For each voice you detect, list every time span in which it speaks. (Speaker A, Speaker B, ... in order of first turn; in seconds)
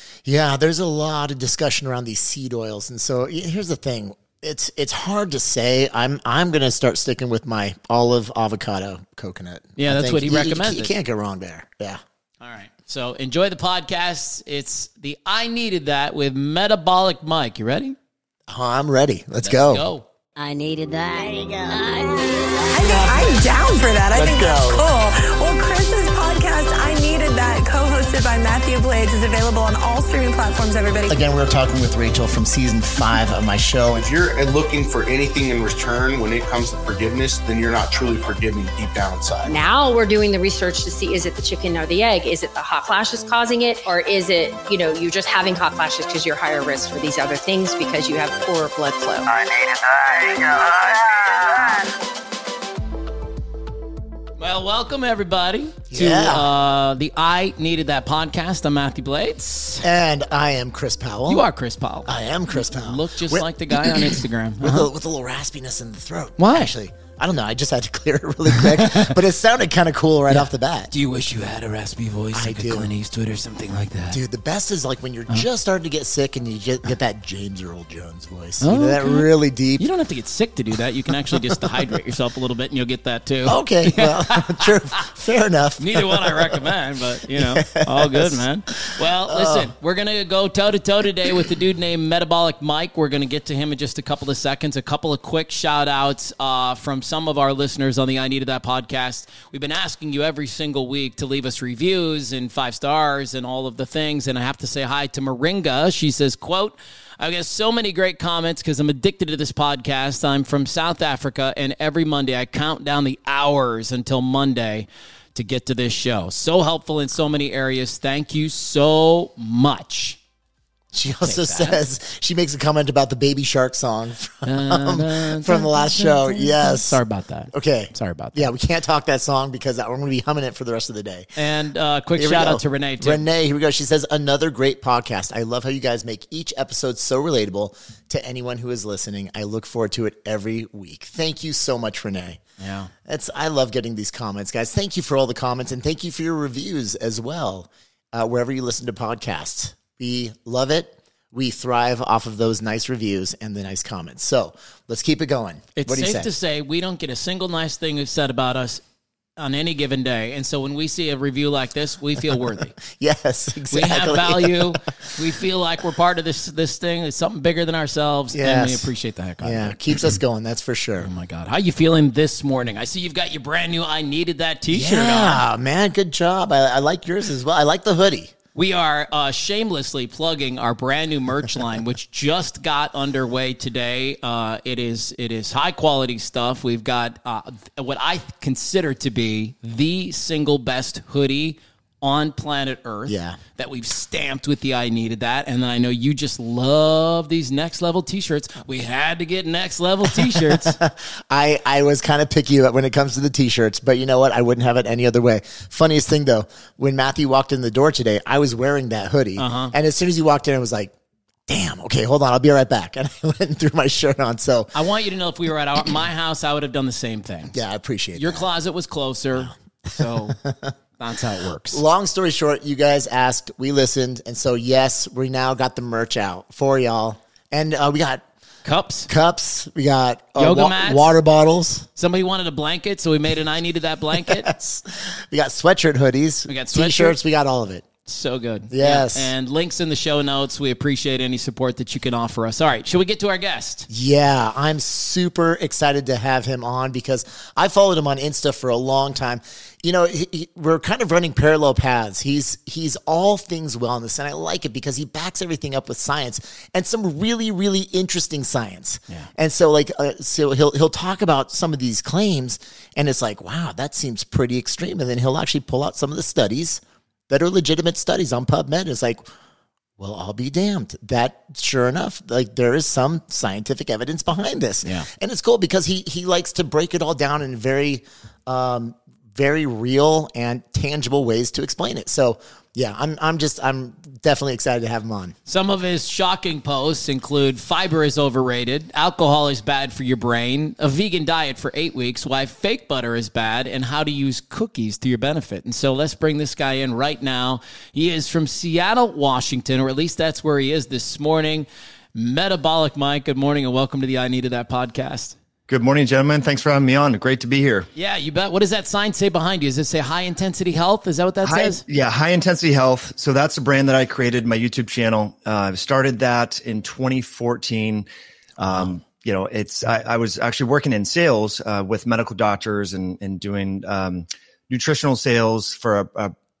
Speaker A: 0.2-12.0, 18.5-19.8, 24.1-24.8, 31.1-34.0, 55.9-56.5, 59.8-61.4, 62.0-70.9, 72.3-72.9, 74.1-79.8, 83.5-86.6, 87.3-89.7, 120.9-131.3, 132.2-142.4, 143.0-156.3, 162.3-164.8, 168.3-168.9, 169.4-171.1, 174.7-178.3, 193.1-193.4, 200.8-210.9, 211.5-214.7, 217.5-218.5, 219.3-220.7, 221.7-228.2, 229.1-231.9, 234.2-237.8, 238.7-239.3, 243.9-269.3, 270.0-285.3
Speaker B: 9.8-10.9, 12.4-17.9, 19.4-20.1, 54.4-59.9, 61.3-64.9, 66.4-66.7, 68.6-69.1, 70.3-74.2, 78.6-84.7, 85.8-120.2, 121.2-121.8, 124.5-128.5, 131.3-133.2, 142.6-142.9, 155.8-158.8, 159.4-162.8, 163.7-170.1, 171.0-175.4, 178.5-200.8, 209.4-209.7, 214.7-217.5, 218.2-220.4, 221.0-221.8, 228.6-229.1, 230.3-231.1, 232.0-234.5, 236.4-237.2, 238.1-243.9, 274.8-275.1, 285.5-305.4, 307.9-311.8
Speaker C: 20.4-23.0
Speaker D: 22.7-31.2
Speaker E: 33.9-39.6, 49.5-51.3
Speaker F: 39.5-49.4
Speaker G: 305.7-307.9, 311.4-326.3